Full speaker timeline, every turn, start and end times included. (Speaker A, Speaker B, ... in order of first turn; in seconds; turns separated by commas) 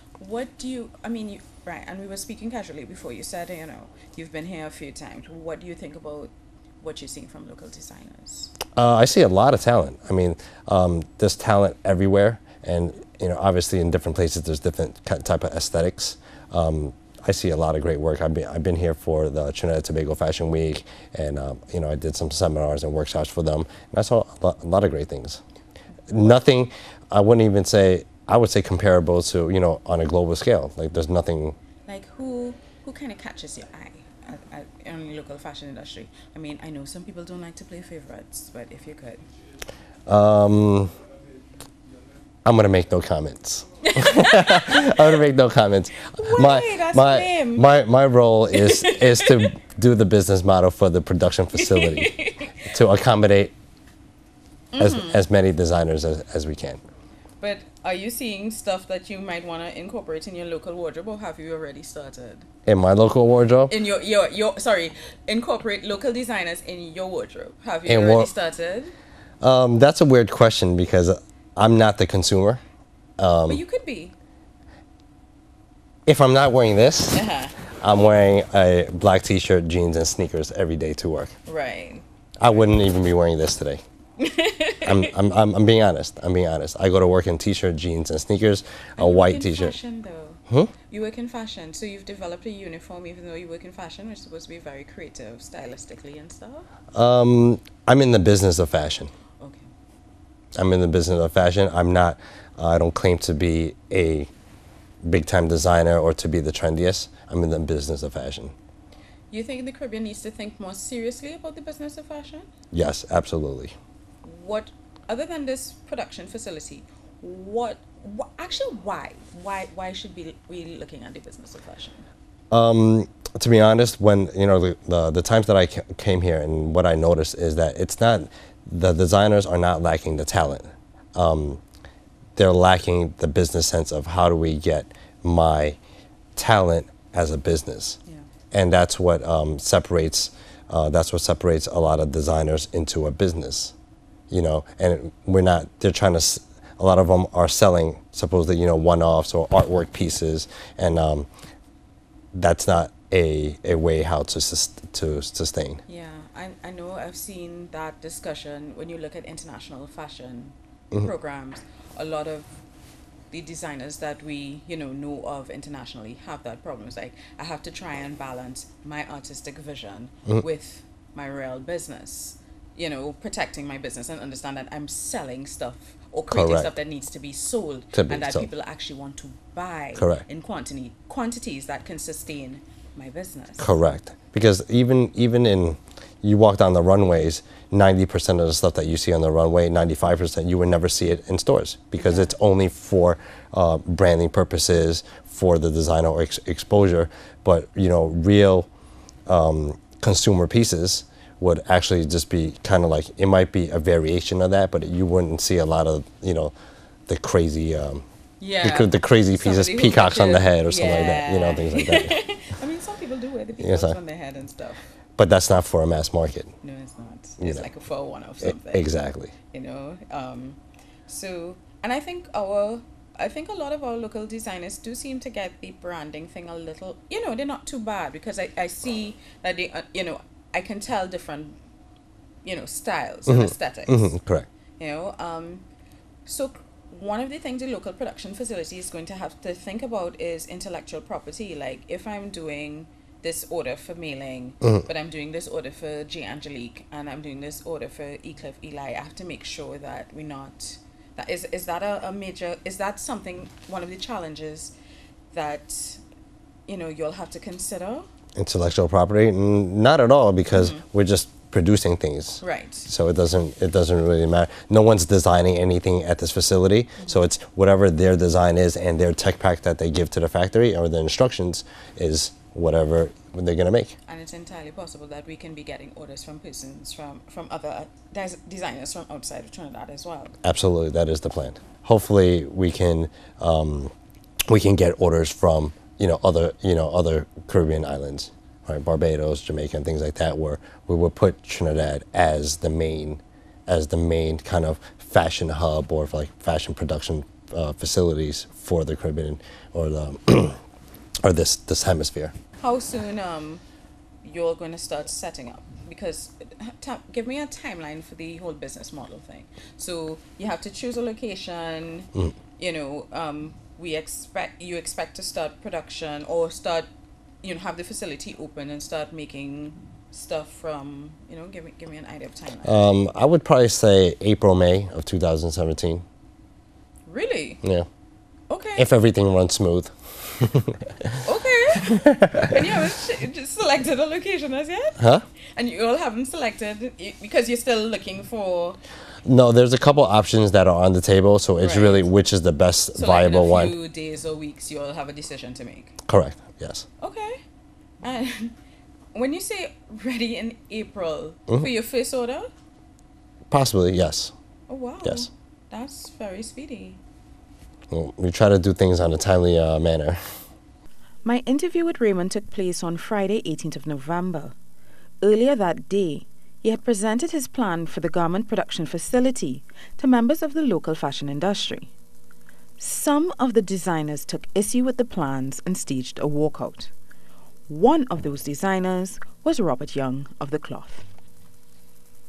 Speaker A: 0.2-8.5, Speaker B: 8.8-25.4, Speaker B: 26.1-31.6, Speaker A: 31.9-39.2, Speaker B: 40.1-40.9, Speaker B: 42.5-53.5, Speaker A: 43.9-45.0, Speaker A: 46.1-47.7, Speaker A: 48.5-49.5, Speaker A: 51.5-52.6, Speaker A: 54.7-55.2, Speaker B: 54.8-56.8, Speaker A: 57.4-62.5, Speaker B: 62.7-63.7, Speaker A: 63.7-68.9, Speaker B: 67.9-68.3, Speaker B: 69.4-72.6, Speaker B: 73.2-73.6, Speaker A: 73.5-74.1, Speaker B: 76.1-77.2, Speaker A: 77.1-77.5, Speaker B: 77.8-81.3, Speaker A: 81.5-82.0, Speaker B: 82.4-83.8, Speaker A: 84.2-85.1, Speaker B: 84.8-89.8, Speaker A: 89.0-96.7, Speaker B: 97.0-99.1, Speaker A: 99.4-99.7, Speaker B: 100.6-104.3, Speaker B: 105.0-108.5, Speaker A: 109.3-112.5, Speaker B: 112.7-113.7, Speaker A: 114.2-122.0, Speaker B: 122.5-131.6, Speaker B: 132.4-135.8, Speaker B: 136.4-138.0, Speaker B: 138.5-143.7, Speaker B: 144.3-151.3, Speaker B: 152.3-155.8, Speaker A: 155.9-162.5, Speaker A: 163.3-183.7, Speaker B: 176.3-176.7, Speaker B: 177.9-178.5, Speaker B: 180.0-180.2, Speaker B: 183.6-198.7, Speaker A: 192.0-192.3, Speaker B: 199.3-206.5, Speaker B: 207.1-208.0, Speaker A: 208.4-214.8, Speaker B: 208.6-212.2, Speaker B: 213.6-214.0, Speaker B: 215.2-216.5, Speaker A: 216.6-218.9, Speaker B: 217.4-217.7, Speaker B: 218.4-219.3, Speaker A: 219.5-231.6, Speaker A: 232.4-234.1, Speaker B: 233.3-234.5, Speaker A: 234.8-235.7, Speaker A: 236.3-254.7, Speaker A: 255.3-256.0, Speaker A: 256.7-258.1, Speaker B: 258.4-274.0, Speaker A: 260.5-260.8, Speaker A: 262.4-262.9, Speaker A: 274.1-280.3, Speaker B: 280.4-283.9, Speaker B: 284.5-300.6, Speaker B: 301.2-302.3, Speaker A: 302.6-303.6, Speaker A: 304.2-316.9, Speaker A: 317.4-322.8, Speaker B: 322.6-326.0, Speaker A: 327.1-327.6, Speaker A: 328.5-328.9, Speaker B: 328.8-331.2, Speaker A: 331.2-335.0, Speaker B: 331.9-332.6, Speaker B: 335.0-335.2, Speaker A: 335.6-338.8, Speaker B: 339.3-343.7, Speaker A: 341.6-342.1, Speaker A: 342.9-346.0, Speaker B: 346.1-346.9, Speaker A: 347.0-347.4, Speaker A: 348.0-348.5, Speaker A: 349.1-352.5, Speaker B: 353.5-354.3, Speaker A: 354.7-357.0, Speaker B: 355.0-355.3, Speaker B: 357.9-360.4, Speaker C: 361.2-364.5, Speaker C: 365.2-371.9, Speaker C: 372.8-376.9, Speaker C: 377.7-381.0